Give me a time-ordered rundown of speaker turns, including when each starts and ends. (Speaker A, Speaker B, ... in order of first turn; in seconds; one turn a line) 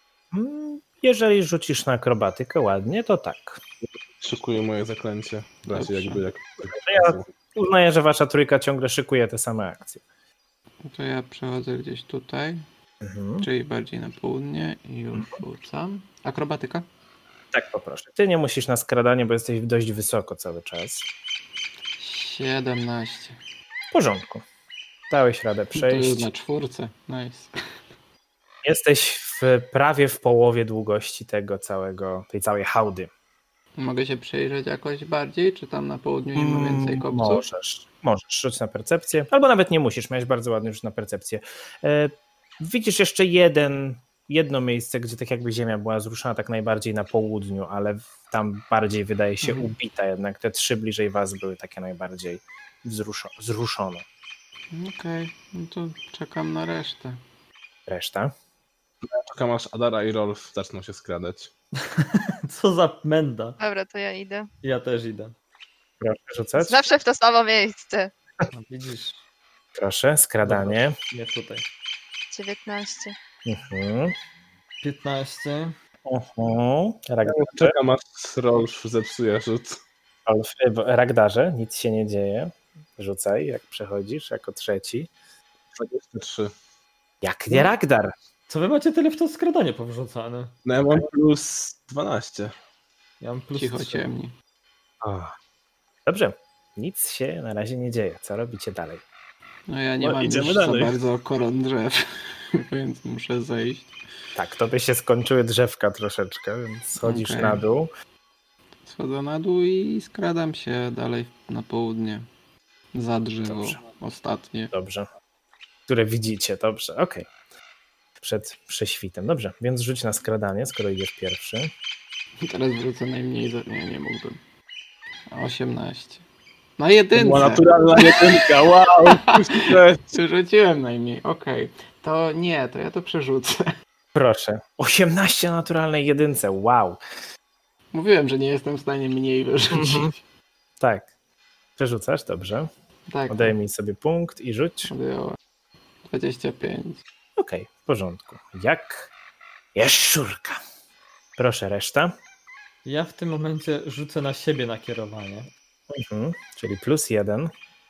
Speaker A: 0.3-3.6
Speaker B: 4.2-7.3
Speaker C: 5.7-6.2
Speaker A: 6.6-10.0
Speaker C: 10.8-12.6
Speaker A: 13.0-13.5
Speaker C: 13.4-16.9
Speaker A: 17.5-21.1
Speaker C: 22.0-23.4
Speaker A: 23.9-24.4
Speaker A: 25.1-26.3
Speaker C: 25.7-27.5
Speaker A: 28.6-33.1
Speaker C: 33.8-37.5
Speaker A: 36.4-54.0
Speaker C: 49.4-49.7
Speaker C: 54.7-57.2
Speaker A: 57.9-58.3
Speaker B: 59.0-61.5
Speaker D: 61.8-63.6
Speaker E: 63.6-64.5
Speaker D: 64.6-65.3
Speaker A: 66.0-66.8
Speaker E: 66.6-68.1
Speaker D: 68.5-69.2
Speaker A: 69.7-70.9
Speaker D: 70.4-71.6
Speaker E: 72.3-73.1
Speaker A: 73.5-74.1
Speaker D: 74.8-75.7
Speaker A: 76.0-77.7
Speaker B: 77.2-79.8
Speaker A: 80.3-85.1
Speaker B: 85.7-86.5
Speaker A: 87.2-88.1
Speaker D: 88.5-90.5
Speaker B: 90.6-92.5
Speaker D: 93.2-94.0
Speaker C: 93.5-94.3
Speaker A: 95.0-95.3
Speaker A: 96.0-99.0
Speaker C: 99.7-102.0
Speaker B: 100.0-101.0
Speaker C: 102.5-103.9
Speaker A: 104.3-107.9
Speaker C: 107.0-107.6
Speaker C: 108.8-112.2
Speaker C: 112.9-114.7
Speaker A: 113.5-113.7
Speaker A: 114.7-115.1
Speaker A: 115.9-117.3
Speaker A: 118.2-121.7
Speaker C: 122.4-124.4
Speaker C: 125.3-126.2
Speaker C: 126.8-133.7
Speaker B: 127.1-130.1
Speaker A: 134.1-137.0
Speaker C: 137.9-140.2
Speaker A: 139.7-140.1
Speaker A: 140.8-141.1
Speaker A: 141.8-142.7
Speaker C: 143.1-143.5
Speaker A: 143.3-144.9
Speaker C: 144.8-145.4
Speaker C: 146.0-147.0
Speaker A: 147.4-149.1
Speaker A: 149.7-150.6
Speaker A: 151.4-152.1
Speaker D: 152.8-155.5
Speaker A: 155.9-157.5